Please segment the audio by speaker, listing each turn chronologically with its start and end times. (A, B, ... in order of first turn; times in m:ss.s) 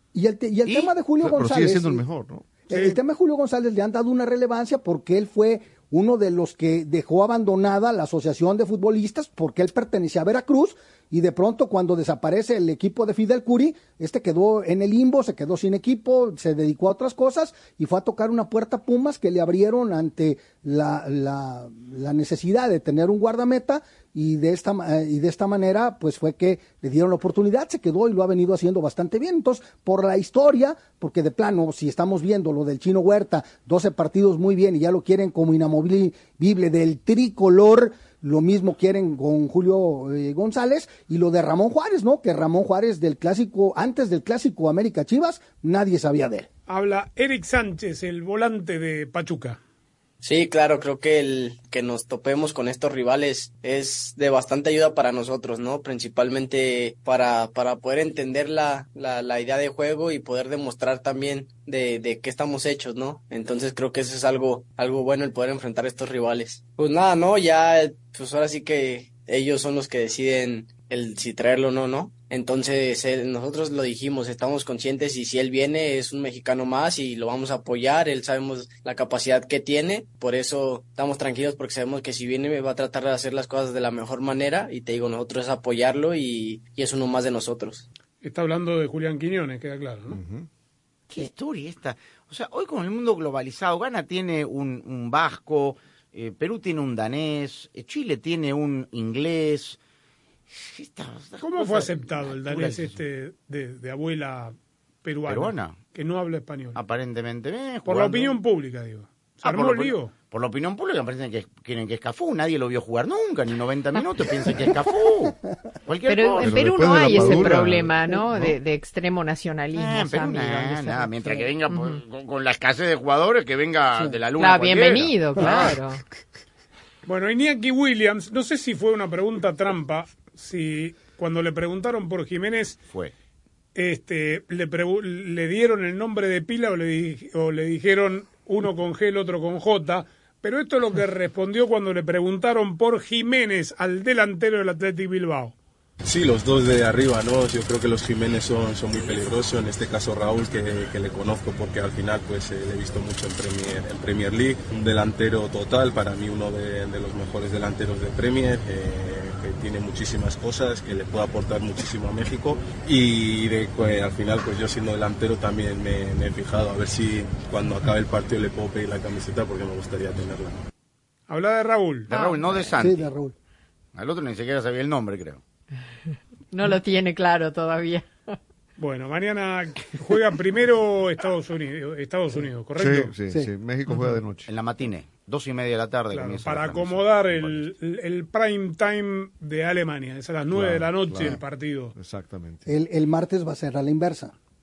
0:00.1-0:02.0 A
0:00.6-0:00.9 B
0:01.2-0:02.5 C
0:02.7-0:46.5 A
0:02.7-0:03.0 D
0:46.7-0:49.6 D
0:50.2-1:27.8 E
1:28.2-1:30.2 D
1:30.1-1:30.5 C
1:31.1-1:39.8 B
1:40.5-1:43.0 B
1:41.4-1:46.8 D
1:45.3-1:45.8 B
1:46.7-1:48.4 B
1:47.8-1:50.1 D
1:49.4-1:57.6 B
1:56.0-2:02.0 F
1:56.4-1:58.6 C
1:59.7-2:05.7 B
2:04.4-2:06.0 F
2:07.0-2:12.8 D
2:13.7-2:25.5 D
2:26.0-2:50.6 G
2:51.3-2:52.1 D
2:52.1-2:53.1 B
2:52.1-2:52.6 F
2:52.8-2:53.3 A
2:53.9-2:55.4 B
2:56.5-2:58.4 F
2:58.8-3:03.1 D
3:02.8-3:04.5 C
3:04.5-3:07.7 B
3:06.1-3:11.9 D
3:10.5-3:11.4 C
3:11.9-3:12.7 C
3:12.7-3:14.3 A